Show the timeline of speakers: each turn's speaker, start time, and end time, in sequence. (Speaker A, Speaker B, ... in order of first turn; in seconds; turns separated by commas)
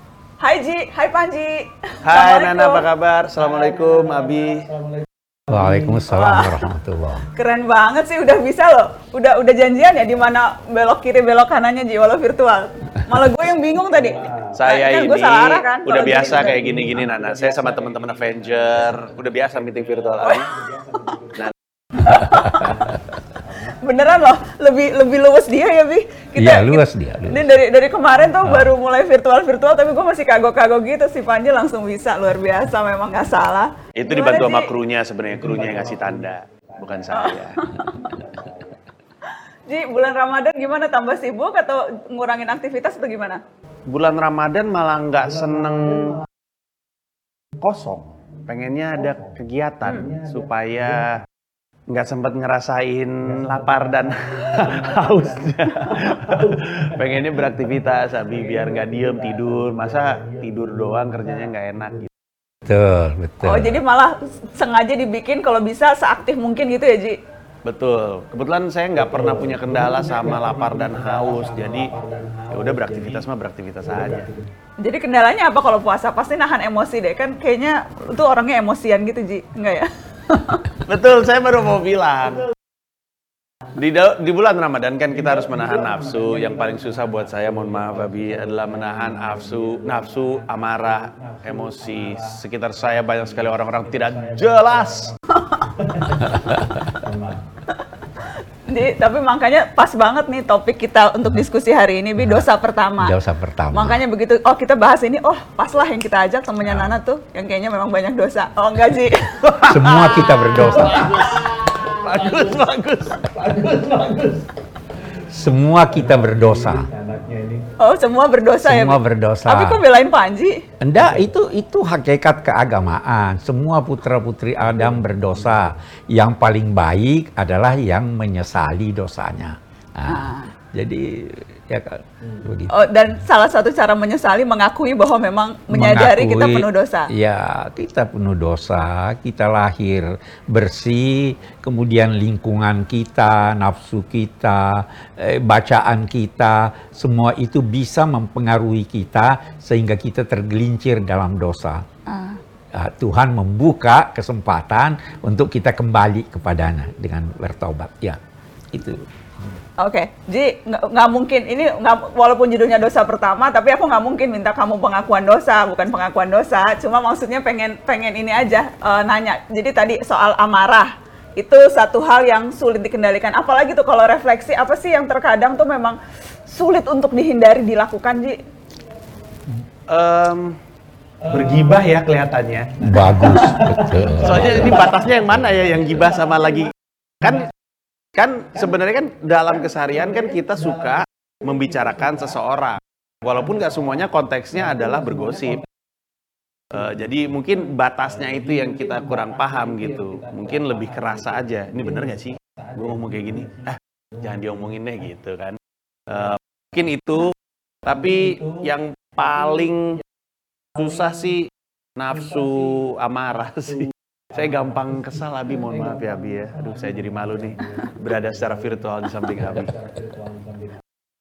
Speaker A: 0.4-2.9, Speaker B: 2.0-4.8, Speaker C: 5.5-7.2, Speaker A: 6.1-6.6, Speaker A: 7.3-16.7, Speaker B: 14.5-20.6, Speaker A: 20.2-21.3, Speaker A: 22.0-23.0, Speaker C: 22.1-22.7, Speaker A: 23.5-34.7, Speaker C: 26.4-27.5, Speaker C: 28.4-28.7, Speaker B: 34.0-37.7, Speaker A: 37.1-38.2, Speaker A: 39.7-43.4, Speaker B: 43.9-46.2, Speaker B: 47.6-51.2, Speaker B: 51.9-62.1, Speaker C: 62.6-63.8, Speaker A: 63.4-67.2, Speaker B: 67.6-72.0, Speaker B: 72.5-74.3, Speaker A: 74.8-80.7, Speaker B: 80.8-82.5, Speaker B: 83.8-95.2, Speaker A: 95.3-95.8, Speaker A: 98.0-103.2, Speaker C: 103.0-104.0, Speaker A: 103.7-111.1, Speaker B: 109.5-109.8, Speaker C: 109.7-111.0, Speaker B: 110.7-114.3, Speaker C: 115.2-116.9, Speaker A: 117.8-120.6, Speaker C: 118.6-119.8, Speaker C: 120.8-132.7, Speaker A: 130.1-130.5, Speaker A: 132.7-137.1, Speaker C: 135.7-151.8, Speaker A: 152.1-152.4, Speaker C: 152.7-158.2, Speaker C: 158.7-159.0, Speaker A: 159.8-178.4, Speaker B: 179.9-180.6, Speaker B: 181.2-182.9, Speaker C: 182.8-184.9, Speaker A: 183.1-183.6, Speaker B: 184.1-187.5, Speaker B: 188.1-195.6, Speaker B: 196.7-210.0, Speaker B: 210.7-219.8